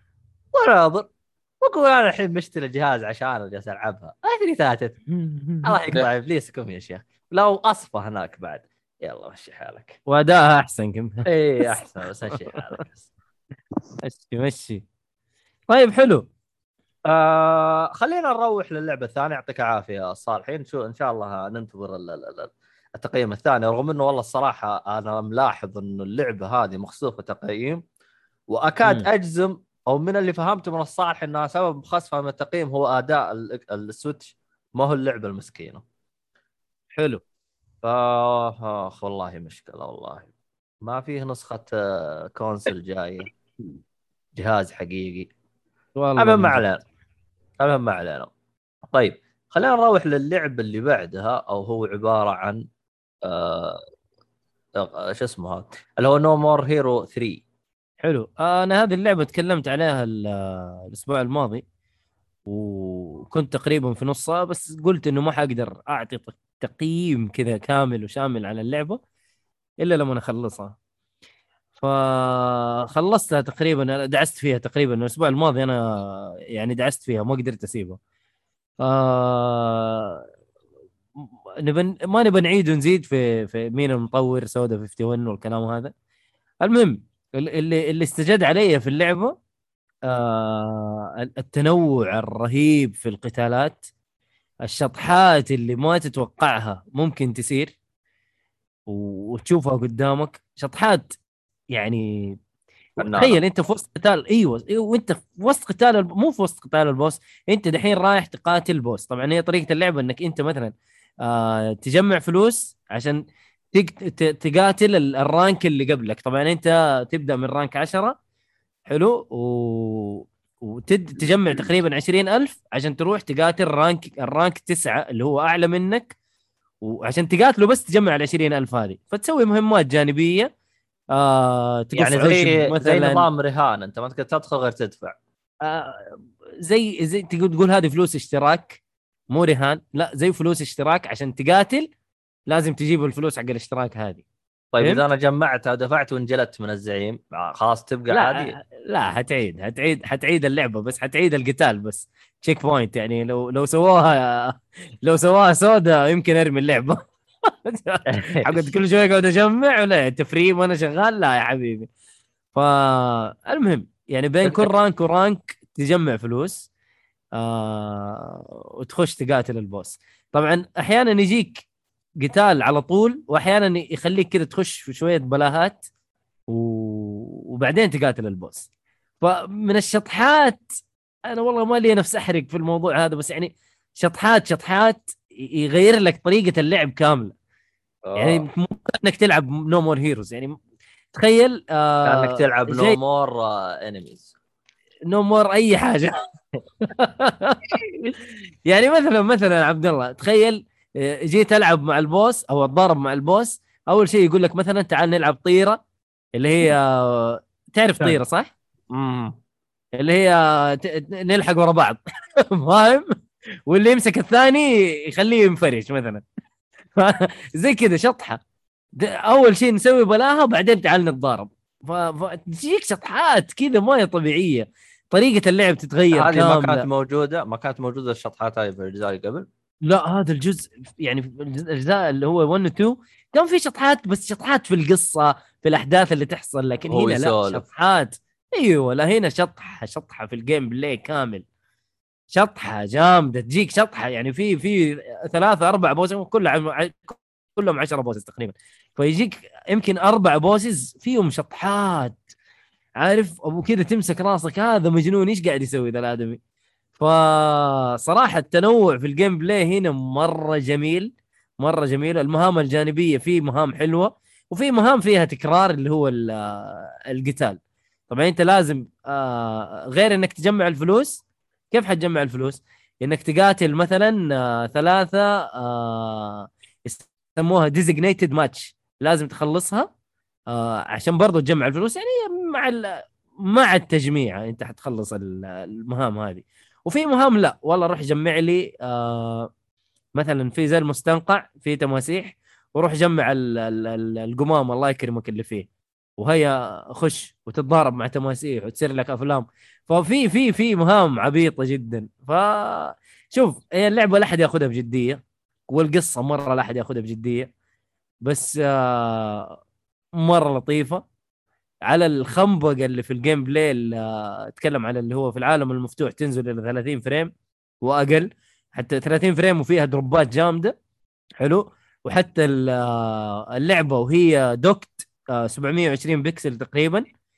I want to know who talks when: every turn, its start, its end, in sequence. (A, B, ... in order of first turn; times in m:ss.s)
0:00.5-0:01.1 A
0:01.6-0:05.0 A
0:05.1-0:05.8 B
0:05.6-0:10.0 A
0:10.1-0:12.6 B
0:11.3-0:13.1 A
0:14.0-0:14.8 B
0:15.7-0:16.2 B
0:17.1-0:27.8 A
0:28.5-0:35.8 A
0:37.0-0:37.2 B
0:37.8-0:40.3 A
0:40.8-0:43.3 A
0:44.4-0:45.3 A
0:46.0-0:46.6 B
0:46.2-0:46.8 A
0:47.6-0:48.3 A
0:48.9-0:52.6 A
0:53.2-0:53.8 A
0:54.8-0:57.4 A
0:58.0-1:01.6 B
1:02.5-1:09.0 B
1:09.8-1:10.7 B
1:11.8-1:18.0 B
1:18.8-1:20.2 B
1:21.2-1:25.9 B
1:26.6-1:29.3 B
1:30.1-1:33.8 B
1:34.6-1:37.7 B
1:38.9-1:41.1 B
1:41.7-1:42.4 B
1:43.0-1:50.7 B
1:43.0-1:43.4 A
1:51.2-1:53.2 B
1:53.7-1:58.1 B
1:58.9-2:06.1 B
2:06.8-2:10.5 B
2:11.1-2:13.3 B
2:11.9-2:15.2 A
2:15.6-2:18.8 B
2:19.3-2:21.9 B
2:22.5-2:24.2 B
2:24.7-2:28.5 A
2:28.1-2:41.9 B
2:38.1-2:38.6 A
2:42.5-2:46.7 B
2:44.4-2:44.7 A
2:47.4-2:51.6 B
2:52.2-2:55.8 B
2:56.5-2:58.7 B
2:59.2-3:00.6 B
3:01.3-3:07.3 B
3:08.1-3:08.5 A
3:08.2-3:10.6 B
3:11.2-3:13.0 B
3:12.0-3:14.3 A
3:15.1-3:16.2 B
3:16.9-3:25.8 B
3:26.4-3:28.5 B
3:28.9-3:29.3 A
3:30.0-3:33.1 B
3:33.7-3:36.2 B
3:37.0-3:38.4 B
3:39.0-3:46.8 B
3:46.1-3:49.4 A
3:49.9-4:01.4 B
3:56.9-3:57.6 A
4:02.3-4:12.2 B
4:13.0-4:16.4 B
4:17.0-4:27.6 B
4:28.1-4:39.9 B
4:40.5-4:49.5 B
4:50.2-4:55.7 B
4:56.2-5:07.5 B
5:08.2-5:09.6 B
5:10.2-5:11.0 B
5:11.8-5:20.7 B
5:21.4-5:27.0 B